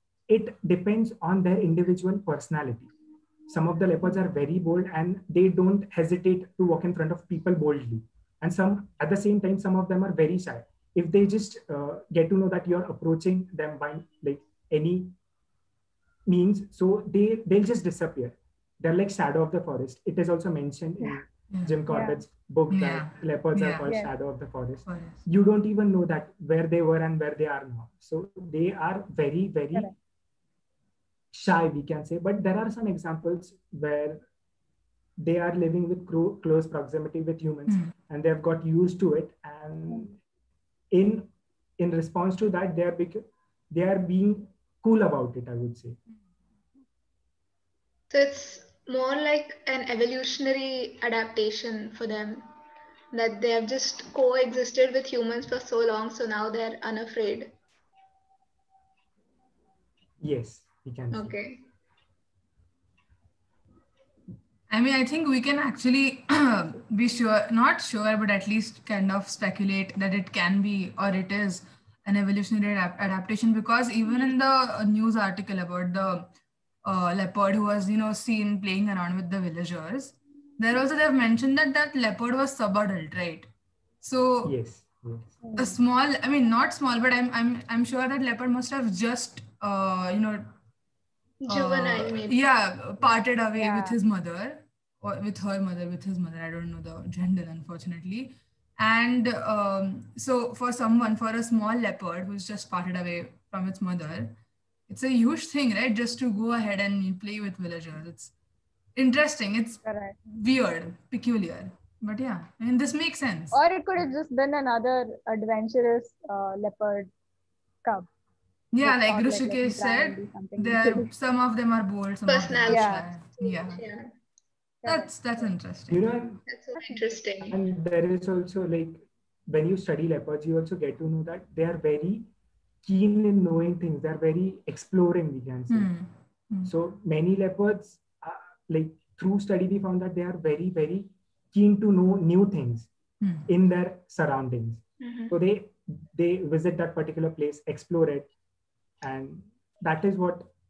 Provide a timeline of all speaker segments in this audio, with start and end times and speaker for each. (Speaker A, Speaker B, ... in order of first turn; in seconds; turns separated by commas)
Speaker A: 0.3-2.9, Speaker A: 3.5-15.1, Speaker A: 16.3-29.9, Speaker B: 21.5-21.8, Speaker C: 21.9-22.2, Speaker B: 22.7-23.9, Speaker C: 23.9-24.1, Speaker B: 24.9-25.2, Speaker A: 31.3-34.2, Speaker A: 35.2-40.2, Speaker B: 37.7-37.9, Speaker A: 40.9-41.3, Speaker A: 41.8-46.0, Speaker D: 48.1-52.5, Speaker D: 53.1-57.5, Speaker A: 60.2-61.4, Speaker D: 61.1-61.6, Speaker B: 64.7-76.3, Speaker B: 76.8-83.5, Speaker B: 84.0-84.5, Speaker A: 84.4-85.4, Speaker C: 85.4-85.8, Speaker B: 85.6-90.5, Speaker D: 91.4-92.4, Speaker B: 91.5-104.3, Speaker C: 93.5-94.0, Speaker B: 104.9-108.3, Speaker B: 109.0-113.6, Speaker C: 109.8-110.2, Speaker C: 113.5-117.1, Speaker B: 118.7-123.8, Speaker C: 118.8-121.1, Speaker D: 122.3-124.1, Speaker C: 122.7-123.1, Speaker C: 124.8-125.5, Speaker B: 124.8-126.1, Speaker A: 125.9-126.4, Speaker D: 126.5-127.6, Speaker C: 126.8-127.1, Speaker A: 127.4-132.3, Speaker A: 132.8-135.9, Speaker B: 135.7-136.7, Speaker A: 136.7-142.9, Speaker B: 143.2-143.5, Speaker A: 143.5-148.3, Speaker D: 145.0-145.3, Speaker A: 149.0-150.5